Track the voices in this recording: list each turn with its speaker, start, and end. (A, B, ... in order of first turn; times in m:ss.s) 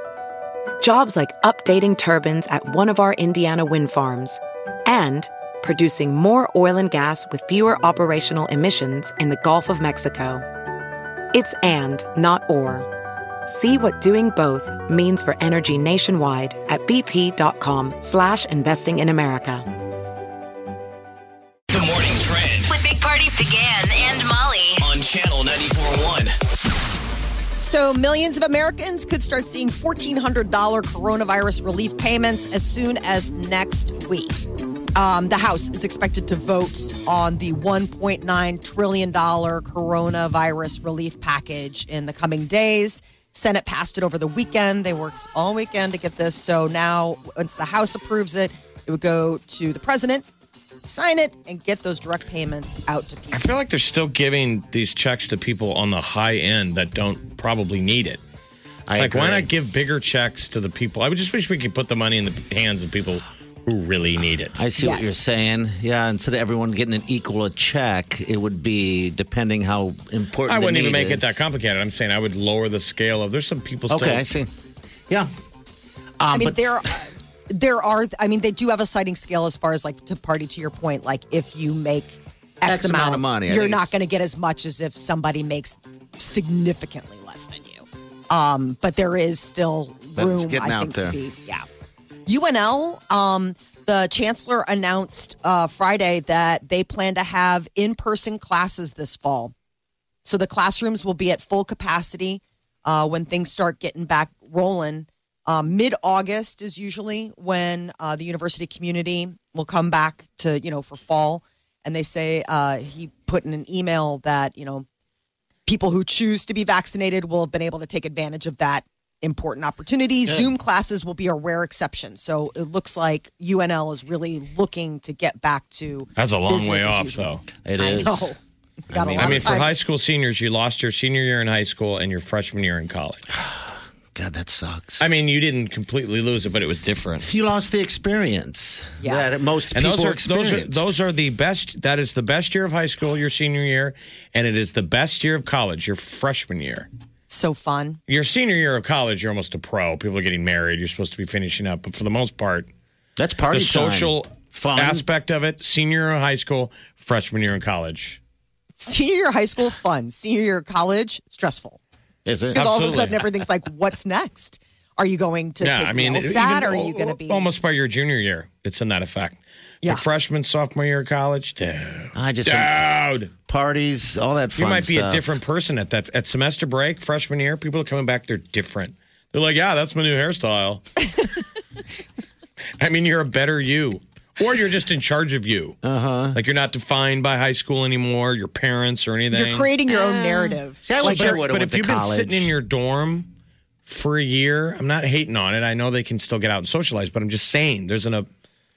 0:00.8-0:10.4 A
0:11.3-0:12.9 A
0:13.5-0:19.7 A
0:21.7-0:22.7 B
0:22.7-0:24.9 C
0:24.8-0:26.4 B
0:27.6-0:34.4 D
0:35.0-0:50.2 D
0:50.8-0:53.5 D
0:53.3-0:58.2 E
0:58.9-0:59.5 F
0:59.0-1:04.6 E
1:04.6-1:11.4 F
1:04.8-1:05.3 D
1:10.5-1:14.3 E
1:13.9-1:14.5 F
1:16.2-1:16.9 F
1:16.3-1:31.7 D
1:22.7-1:23.9 F
1:30.2-1:31.2 F
1:32.3-1:39.5 D
1:40.2-1:54.8 D
1:55.7-2:08.4 D
2:06.2-2:07.4 E
2:07.6-2:08.3 F
2:08.9-2:09.7 F
2:08.9-2:09.7 D
2:09.2-2:13.2 E
2:13.3-2:15.0 F
2:15.0-2:17.3 E
2:17.2-2:20.8 F
2:19.7-2:26.9 E
2:27.3-2:28.0 D
2:28.1-2:32.7 E
2:33.2-2:35.0 F
2:33.5-2:38.2 E
2:38.8-2:41.8 D
2:42.2-2:42.7 F
2:42.5-2:43.3 E
2:42.5-2:47.5 D
2:45.6-2:53.3 E
2:52.1-2:52.9 F
2:53.4-2:55.2 F
2:54.6-3:00.8 E
3:02.8-3:05.8 E
3:05.8-3:06.4 F
3:06.3-3:09.7 E
3:09.3-3:11.4 D
3:09.9-3:12.5 F
3:11.0-3:13.3 E
3:13.8-3:18.2 E